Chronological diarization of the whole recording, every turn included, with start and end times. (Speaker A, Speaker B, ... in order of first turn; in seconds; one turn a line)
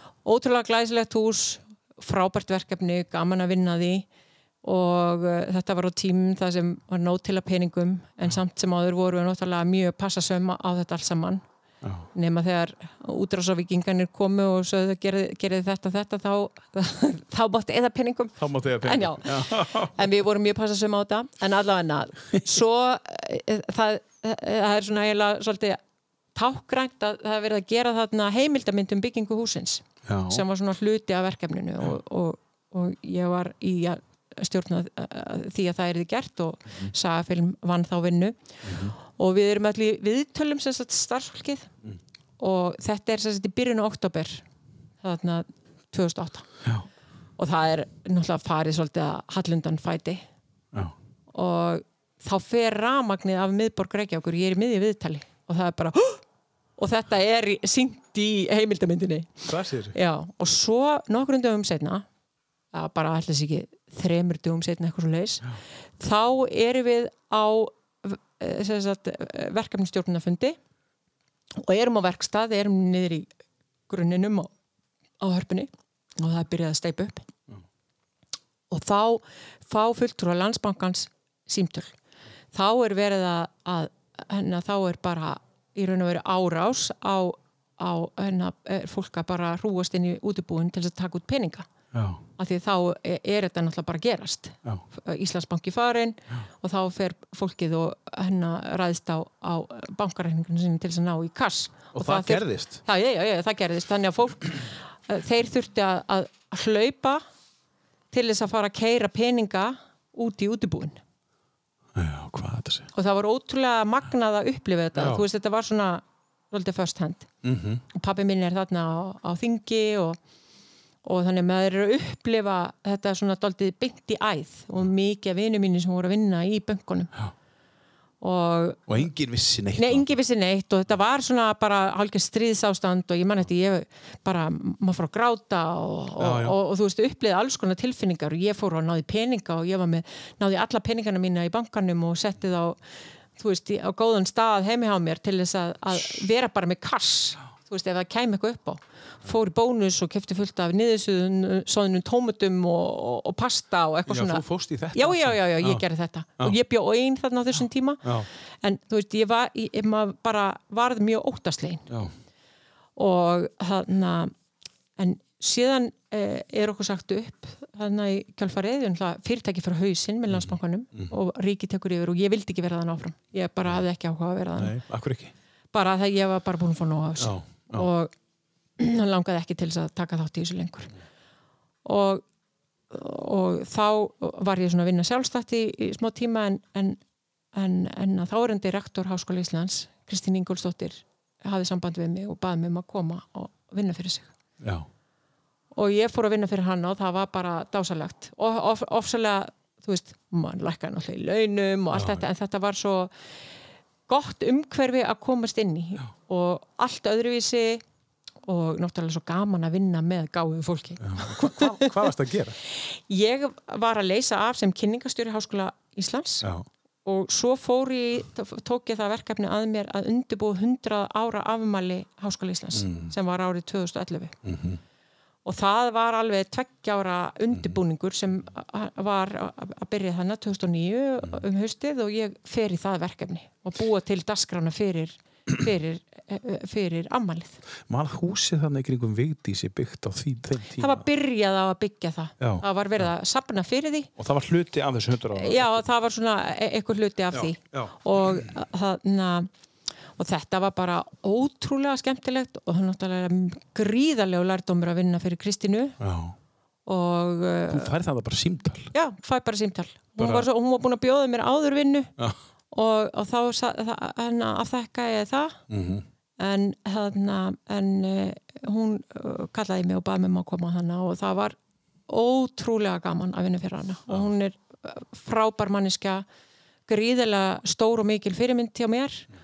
Speaker A: 0.2-4.1
Speaker A: 4.6-11.4
Speaker A: 12.1-25.8
Speaker B: 18.4-20.0
Speaker A: 26.4-38.4
Speaker B: 30.1-30.4
Speaker B: 38.6-39.0
Speaker A: 39.0-41.7
Speaker A: 42.4-44.4
Speaker A: 45.0-46.5
Speaker A: 47.4-50.2
Speaker A: 51.3-56.2
Speaker A: 56.8-62.0
Speaker B: 59.5-60.0
Speaker A: 62.7-65.5
Speaker A: 66.0-70.6
Speaker A: 71.6-73.3
Speaker A: 73.9-74.5
Speaker A: 75.2-77.3
Speaker A: 78.7-81.9
Speaker A: 82.5-91.7
Speaker B: 91.9-92.2
Speaker A: 92.4-107.2
Speaker B: 101.9-102.8
Speaker A: 108.1-111.0
Speaker B: 112.0-112.9
Speaker A: 112.9-117.3
Speaker B: 115.0-115.2
Speaker B: 117.4-117.8
Speaker A: 117.9-120.2
Speaker A: 121.0-127.1
Speaker A: 128.2-129.0
Speaker B: 128.9-130.1
Speaker A: 129.8-142.8
Speaker B: 136.2-136.6
Speaker A: 143.4-158.1
Speaker B: 154.1-155.8
Speaker A: 158.6-161.9
Speaker A: 163.0-164.3
Speaker A: 165.0-174.8
Speaker B: 170.3-171.1
Speaker B: 174.6-175.3
Speaker A: 175.7-178.1
Speaker B: 177.2-177.9
Speaker A: 178.8-180.9
Speaker A: 181.8-182.2
Speaker A: 182.9-187.0
Speaker A: 187.5-194.3
Speaker B: 194.6-194.9
Speaker A: 195.7-203.1
Speaker B: 201.9-202.3
Speaker A: 204.1-207.8
Speaker A: 208.5-212.1
Speaker B: 211.0-212.6
Speaker A: 212.8-216.5
Speaker A: 217.1-224.3
Speaker B: 222.7-223.1
Speaker B: 224.4-224.8
Speaker A: 225.4-237.6
Speaker B: 227.5-227.8
Speaker B: 237.9-241.1
Speaker A: 240.8-244.1
Speaker B: 242.4-243.1
Speaker B: 244.2-245.9
Speaker A: 245.4-249.5
Speaker B: 247.3-248.5
Speaker A: 250.2-256.0
Speaker B: 256.0-256.4
Speaker A: 256.9-257.9
Speaker B: 257.7-258.9
Speaker A: 258.9-262.1
Speaker B: 260.2-260.5
Speaker A: 262.7-265.6
Speaker B: 265.7-266.1
Speaker A: 266.4-271.6
Speaker A: 272.1-276.2
Speaker A: 276.9-279.3